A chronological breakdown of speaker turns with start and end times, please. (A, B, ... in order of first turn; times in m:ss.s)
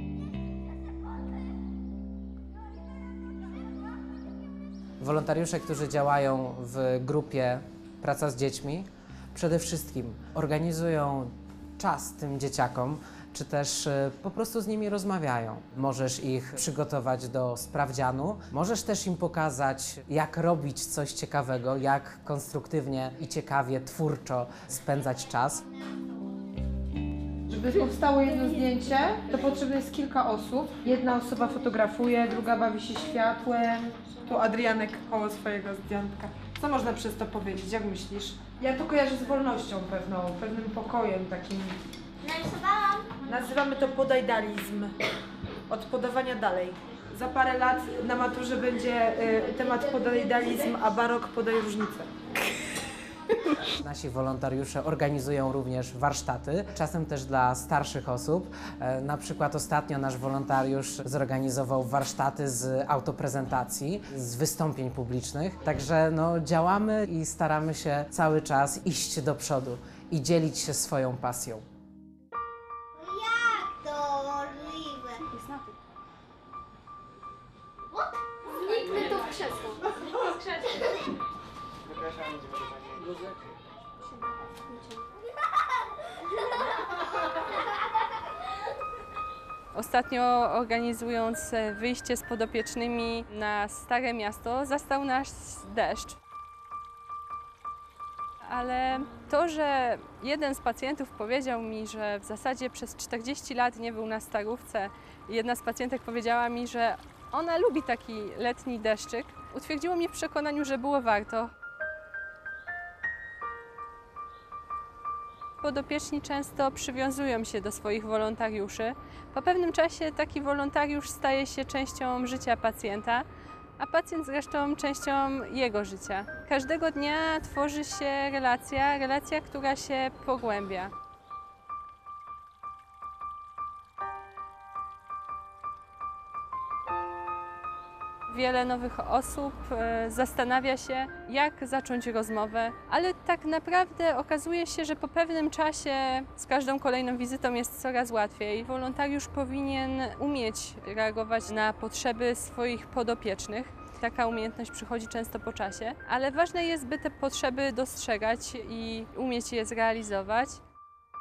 0:05.0-0:25.6 A
0:27.5-0:41.8 B
0:42.3-0:43.1 C
0:43.2-0:44.9 B
0:45.7-0:52.1 B
0:53.7-1:11.6 A
1:13.1-1:15.4 C
1:18.5-1:20.9 C
1:24.7-1:25.1 C
1:29.7-1:36.2 D
1:38.4-1:51.5 D
1:55.6-2:03.2 D
2:03.8-2:10.9 D
2:18.3-2:40.6 D